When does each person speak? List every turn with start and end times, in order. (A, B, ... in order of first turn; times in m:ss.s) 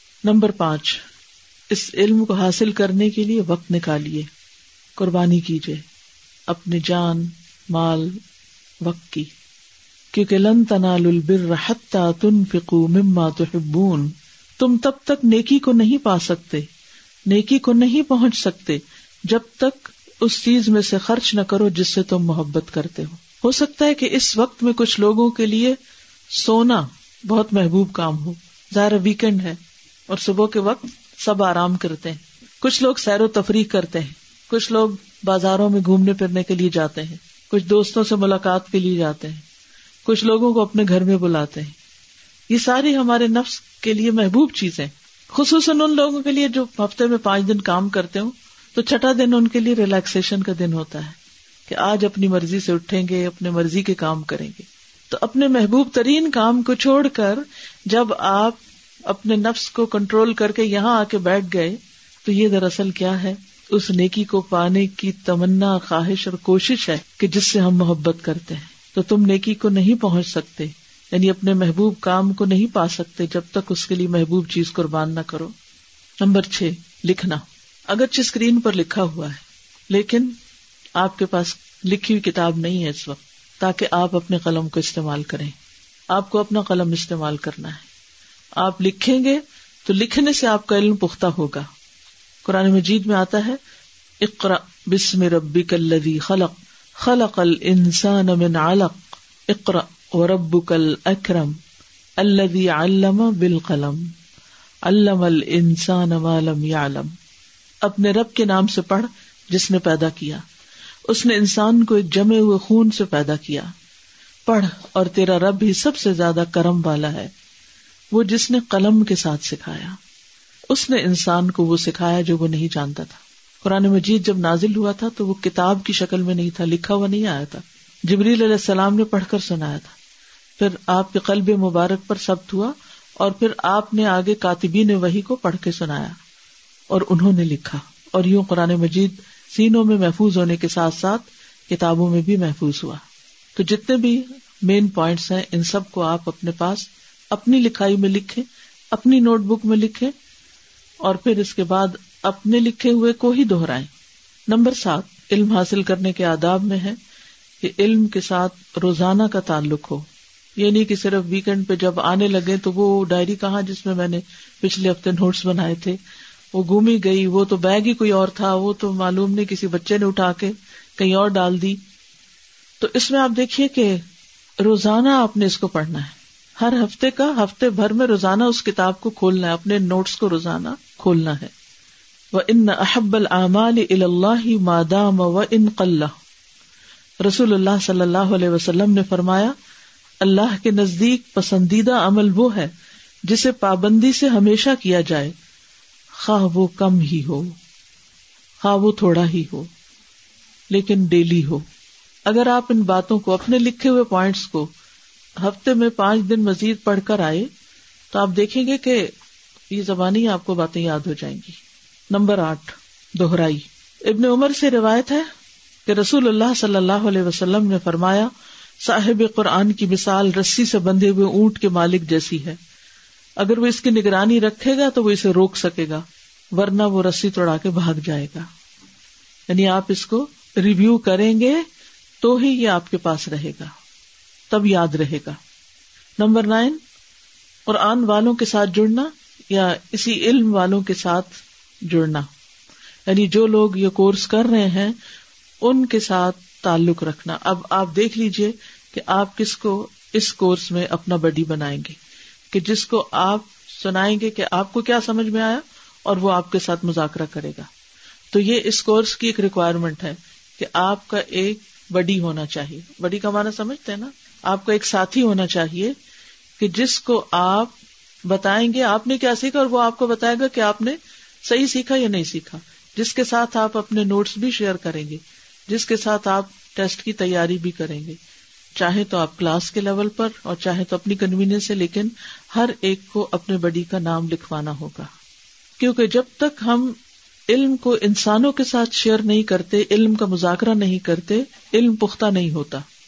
0:00.2-0:01.0 A
0:01.7-0:04.3 A
0:05.0-0:05.8 A
0:06.5-0:08.2 A
0:08.8-0:09.3 A
0:10.1-0:16.7 A
0:17.3-0:25.8 A
0:26.3-0:39.4 A
0:40.0-0:41.8 A
0:42.5-1:15.5 A
1:16.2-1:20.4 A
1:21.0-1:25.5 A
1:26.1-1:27.8 A
1:28.6-1:31.7 A
1:32.4-1:33.6 A
1:34.2-1:41.6 A
1:42.2-1:44.1 A
1:44.8-1:47.1 A
1:47.8-1:50.4 A
1:51.1-1:53.7 A
1:54.5-1:57.3 A
1:58.1-2:00.0 A
2:00.7-2:09.9 A
2:10.6-2:16.2 A
2:16.9-2:23.0 A
2:23.6-2:30.1 A
2:31.0-2:33.9 A
2:34.5-2:37.0 A
2:37.6-2:40.0 A
2:40.6-2:46.0 A
2:46.5-2:51.8 A
2:52.8-2:54.0 A
2:54.6-3:01.5 A
3:02.3-3:06.1 A
3:07.2-3:09.5 A
3:10.2-3:12.7 A
3:13.2-3:15.3 A
3:16.2-3:17.6 A
3:18.6-3:19.7 A
3:20.7-3:21.6 A
3:22.2-3:24.7 A
3:25.4-3:27.5 A
3:28.1-3:29.1 A
3:29.7-3:31.6 A
3:32.1-3:35.3 A
3:35.9-3:42.6 A
3:43.4-3:48.5 A
3:49.5-3:51.6 A
3:52.2-3:53.7 A
3:54.5-3:55.4 A
3:56.2-3:56.8 A
3:57.7-4:02.3 A
4:03.1-4:05.0 A
4:05.6-4:12.0 A
4:12.5-4:17.7 A
4:18.3-4:26.0 A
4:26.6-4:27.7 A
4:28.2-4:38.2 A
4:38.8-4:45.1 A
4:45.8-4:47.0 A
4:47.5-4:52.8 A